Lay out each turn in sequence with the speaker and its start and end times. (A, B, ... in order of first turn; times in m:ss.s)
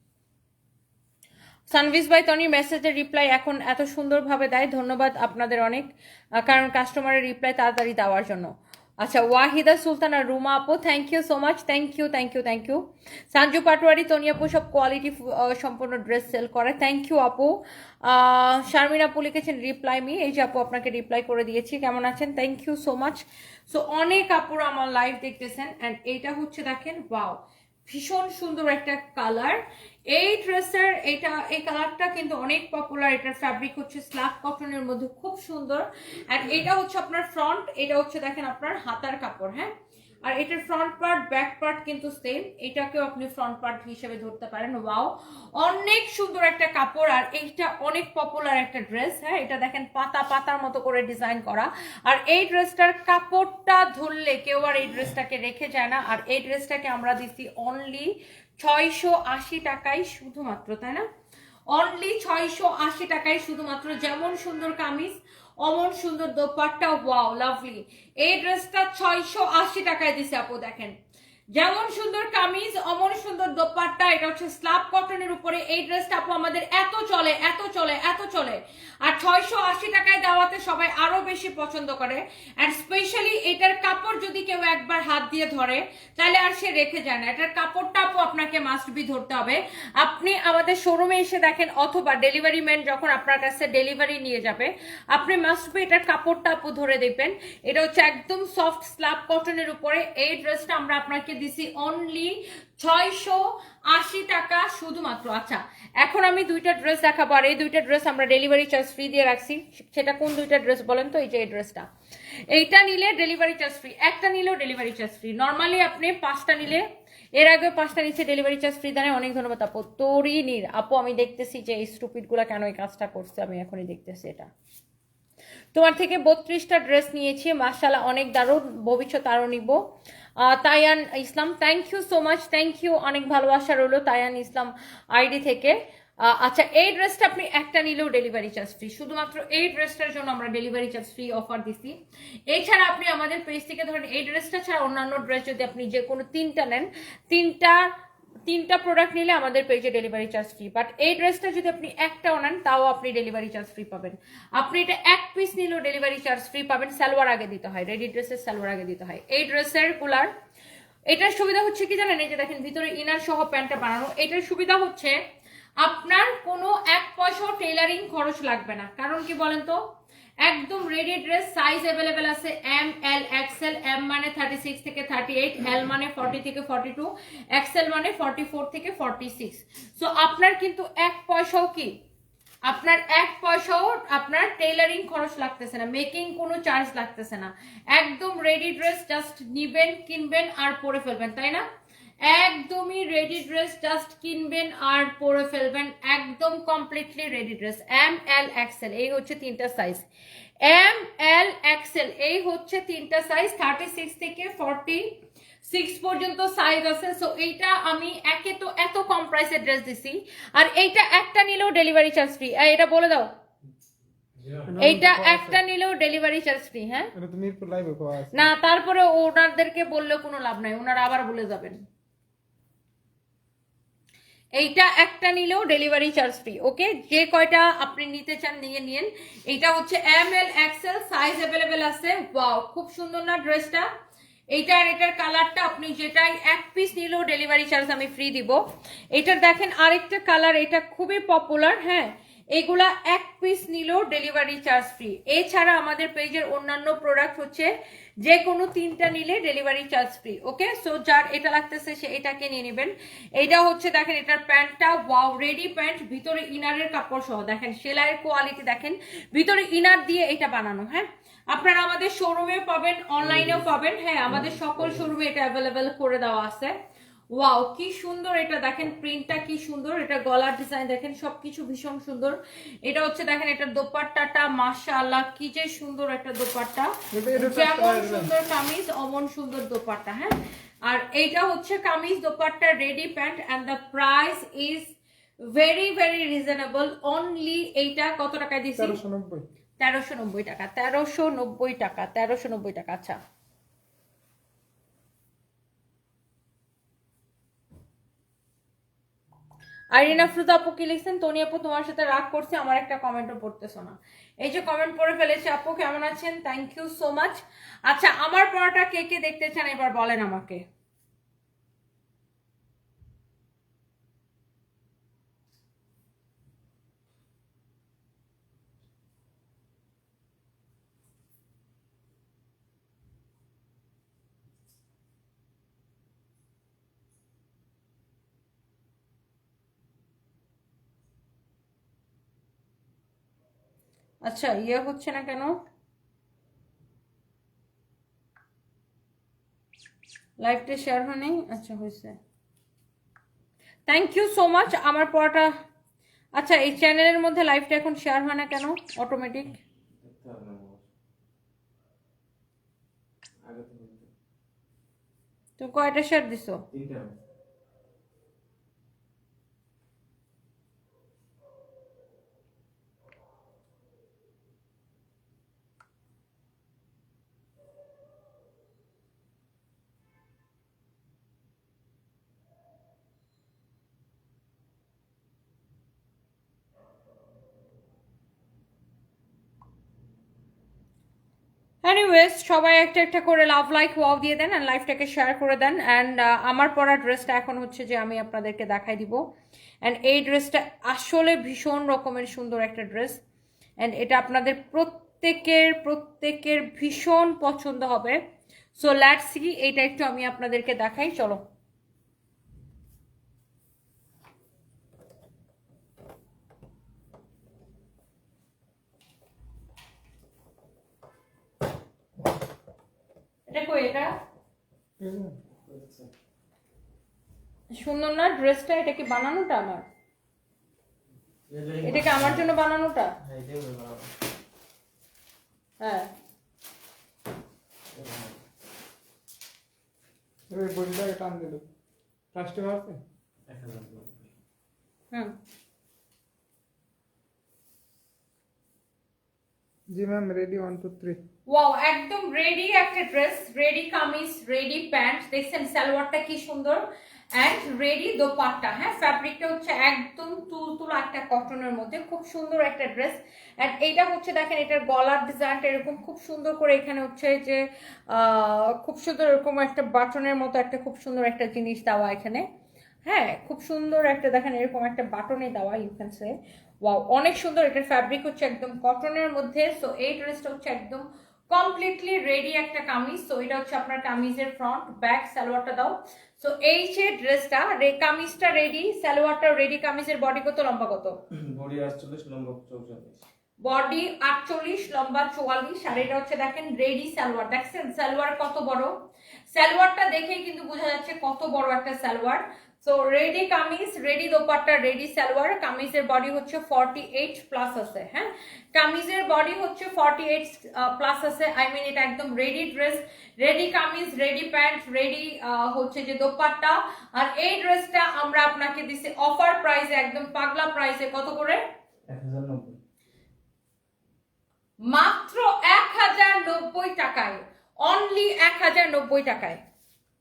0:01.7-0:39.7 A
0:40.2-1:01.1 A
1:01.7-1:11.0 A
1:11.5-1:51.9 A
1:52.5-2:04.5 A
2:05.7-2:09.8 A
2:10.4-2:22.0 A
2:22.5-2:27.9 A
2:28.5-2:40.3 A
2:41.1-2:45.2 A
2:45.8-2:49.8 A
2:50.4-3:02.0 A
3:02.6-3:11.6 A
3:12.2-3:20.1 A
3:20.6-3:33.3 A
3:34.4-3:34.8 B
3:34.7-3:35.6 C
3:34.8-3:37.1 A
3:37.1-3:38.4 C
3:38.3-3:41.8 A
3:44.5-3:53.9 A
3:54.5-4:26.7 A
4:23.2-4:23.7 B
4:24.3-4:25.1 B
4:27.3-4:40.3 A
4:37.1-4:38.3 C
4:40.8-4:49.0 A
4:48.8-4:49.5 C
4:49.8-4:53.2 A
4:59.9-5:10.6 A
5:34.2-5:35.6 A
5:40.4-5:42.2 A
5:43.9-5:45.5 A
5:46.4-5:49.6 A
5:50.0-5:50.9 B
5:53.4-5:54.1 B
5:55.6-5:56.6 A
5:56.7-5:57.2 B
6:21.8-6:33.2 A
6:33.8-6:38.2 A
6:38.8-6:41.4 A
6:53.5-6:54.2 A
6:55.0-6:55.4 C
6:55.6-6:56.1 B
6:57.7-6:59.9 A
7:01.5-7:02.6 B
7:01.8-7:03.1 A
7:03.2-7:04.1 B
7:05.8-7:06.1 A
7:07.9-7:08.4 B
7:10.5-7:11.6 C
7:12.3-7:13.0 C
7:13.5-7:14.3 B
7:19.9-7:21.2 C
7:21.5-7:42.5 A
7:43.0-8:01.2 A
8:01.3-8:03.2 B
8:03.6-8:09.0 A
8:09.5-8:31.6 A
8:32.1-8:32.8 B
8:34.8-8:39.6 A